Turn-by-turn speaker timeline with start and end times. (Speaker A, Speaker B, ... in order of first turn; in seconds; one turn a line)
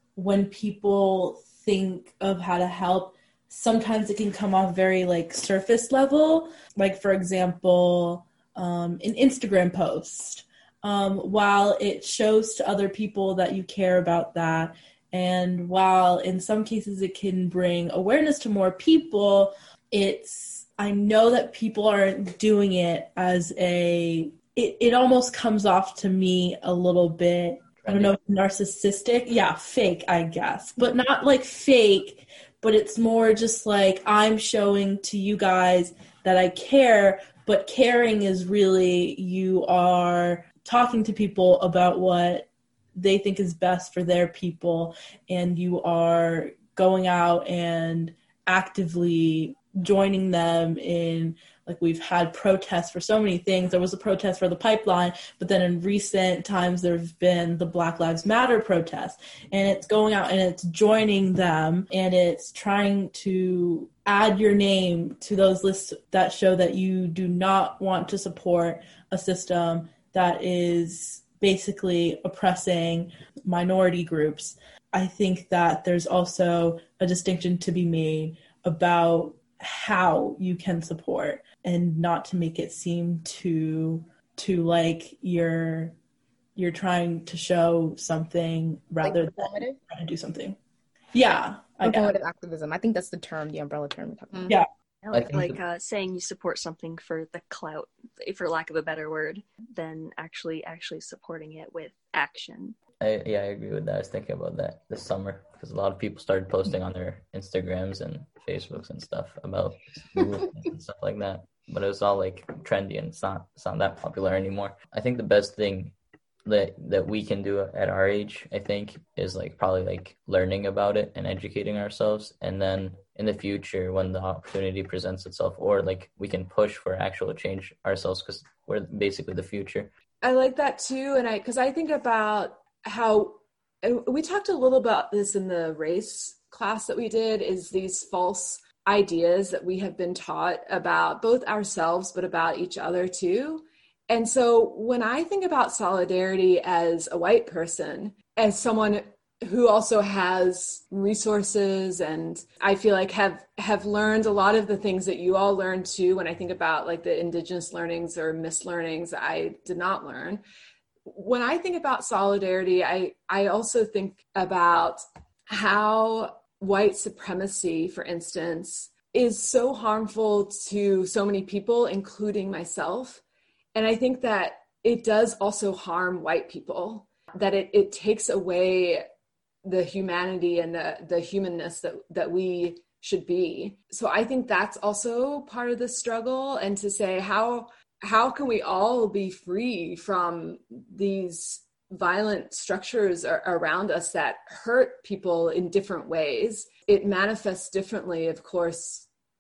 Speaker A: 0.2-85.9
Speaker B: 27.8-28.1
Speaker A: 86.6-90.6
Speaker C: 89.0-89.8
Speaker A: 91.1-92.1
Speaker C: 91.8-94.6
Speaker D: 95.0-102.8
Speaker B: 95.1-95.6
Speaker B: 103.0-115.9
Speaker B: 116.5-129.9
Speaker E: 130.2-160.4
Speaker E: 161.1-173.2
Speaker E: 173.8-179.0
Speaker E: 179.6-199.1